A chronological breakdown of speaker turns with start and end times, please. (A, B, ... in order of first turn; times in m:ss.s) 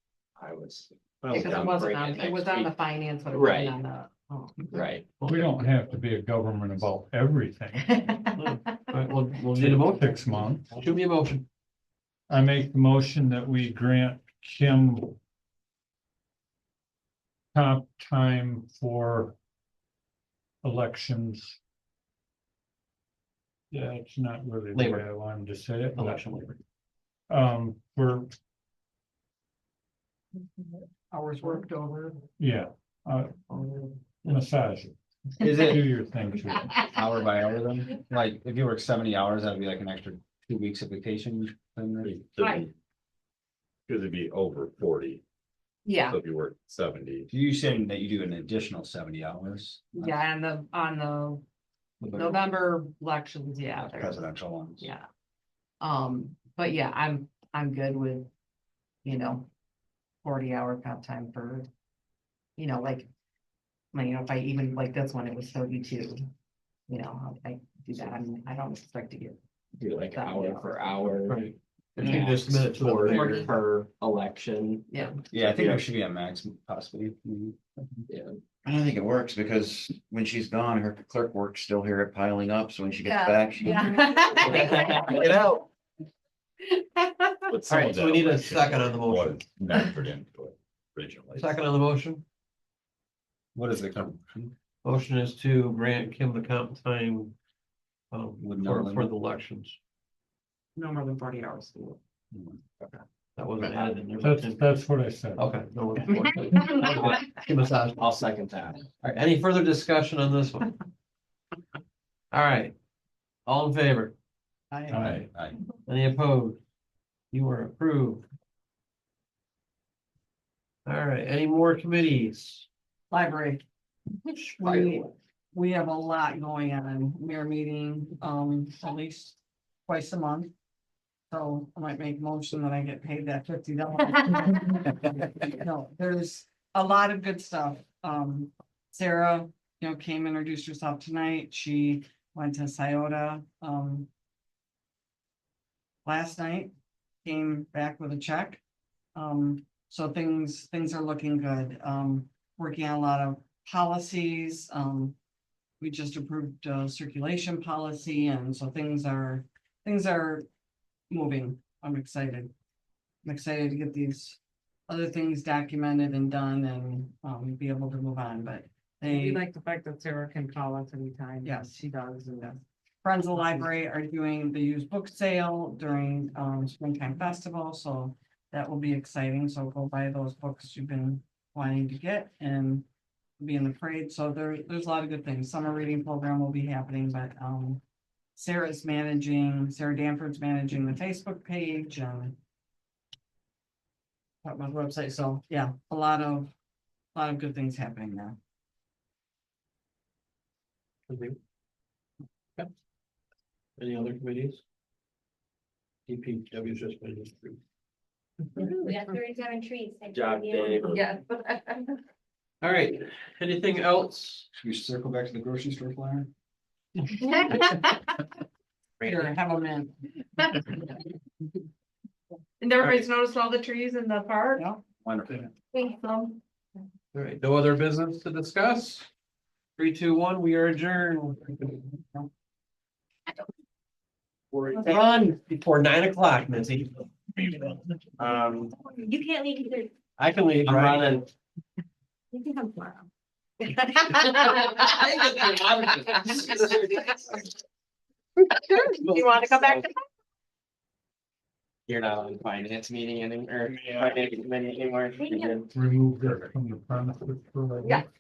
0:00.4-0:02.7 A
0:01.3-0:04.9 B
0:03.3-0:03.8 A
0:04.7-0:05.0 A
0:05.2-0:05.6 C
0:05.2-0:08.0 D
0:07.9-0:08.9 B
0:08.3-0:11.4 C
0:09.6-0:11.0 D
0:12.3-0:15.2 D
0:17.5-0:19.4 D
0:20.6-0:21.6 D
0:23.7-0:26.5 D
0:24.7-0:25.0 C
0:25.9-0:26.6 C
0:27.3-0:28.3 D
0:31.2-0:32.0 E
0:32.4-0:33.4 D
0:34.2-0:36.9 D
0:35.4-0:35.9 F
0:36.8-0:42.2 F
0:42.0-0:42.7 G
0:42.4-0:42.7 B
0:43.9-0:45.2 G
0:45.8-0:46.2 B
0:46.0-0:47.3 G
0:47.3-0:50.2 F
0:50.0-0:51.4 B
0:52.0-0:54.3 B
0:52.0-0:52.4 F
0:53.8-0:54.9 F
0:54.8-0:55.1 B
0:55.8-0:58.3 B
0:59.0-0:59.5 B
1:00.2-1:01.7 B
1:02.6-1:03.1 B
1:03.9-1:06.3 B
1:06.9-1:09.4 B
1:09.8-1:15.8 A
1:10.1-1:11.0 B
1:11.1-1:13.5 C
1:12.0-1:12.4 B
1:13.0-1:13.5 B
1:14.9-1:15.2 B
1:15.3-1:18.0 F
1:18.1-1:18.4 A
1:18.8-1:23.8 H
1:23.0-1:25.4 B
1:24.3-1:25.4 A
1:27.0-1:27.3 B
1:27.5-1:31.6 G
1:27.7-1:29.6 C
1:31.4-1:32.2 C
1:33.6-1:34.5 F
1:34.8-1:37.3 C
1:38.1-1:39.8 C
1:38.4-1:39.2 F
1:40.8-1:42.0 B
1:42.3-1:42.6 F
1:43.4-1:44.7 C
1:44.2-1:45.5 D
1:45.4-1:48.0 C
1:48.0-1:48.8 A
1:49.0-1:50.7 C
1:52.3-1:52.8 C
1:53.5-1:54.1 C
1:54.7-1:55.1 E
1:54.9-1:55.2 D
1:55.0-1:55.3 C
1:55.0-1:55.6 F
1:55.9-1:56.6 C
1:57.3-1:58.3 C
2:00.9-2:02.6 C
2:03.1-2:03.6 E
2:04.4-2:10.5 E
2:11.3-2:24.1 E
2:26.0-2:26.7 E
2:27.2-2:28.6 E
2:29.2-2:35.2 E
2:35.8-2:40.5 E
2:41.1-2:42.5 E
2:43.2-2:49.4 E
2:49.0-2:52.6 B
2:51.4-2:51.7 E
2:53.0-3:02.9 E
2:53.4-2:53.7 B
3:03.4-3:07.8 E
3:08.4-3:12.4 E
3:14.4-3:16.5 E
3:17.1-3:18.4 E
3:21.1-3:21.4 C
3:23.8-3:24.6 C
3:26.1-3:27.6 C
3:28.6-3:30.9 I
3:30.1-3:31.0 A
3:30.9-3:31.8 B
3:32.6-3:34.5 C
3:34.5-3:36.3 F
3:39.0-3:40.0 E
3:42.7-3:44.6 B
3:44.6-3:44.8 E
3:45.0-3:45.5 F
3:47.1-3:49.1 C
3:49.8-3:51.8 C
3:54.8-3:57.1 C
3:58.2-3:58.7 A
3:58.9-3:59.9 I
4:00.2-4:01.3 C
4:00.6-4:01.3 A
4:02.3-4:03.1 I
4:04.8-4:07.1 A
4:08.7-4:09.9 B
4:11.9-4:15.7 A
4:15.2-4:15.5 I
4:15.7-4:18.0 D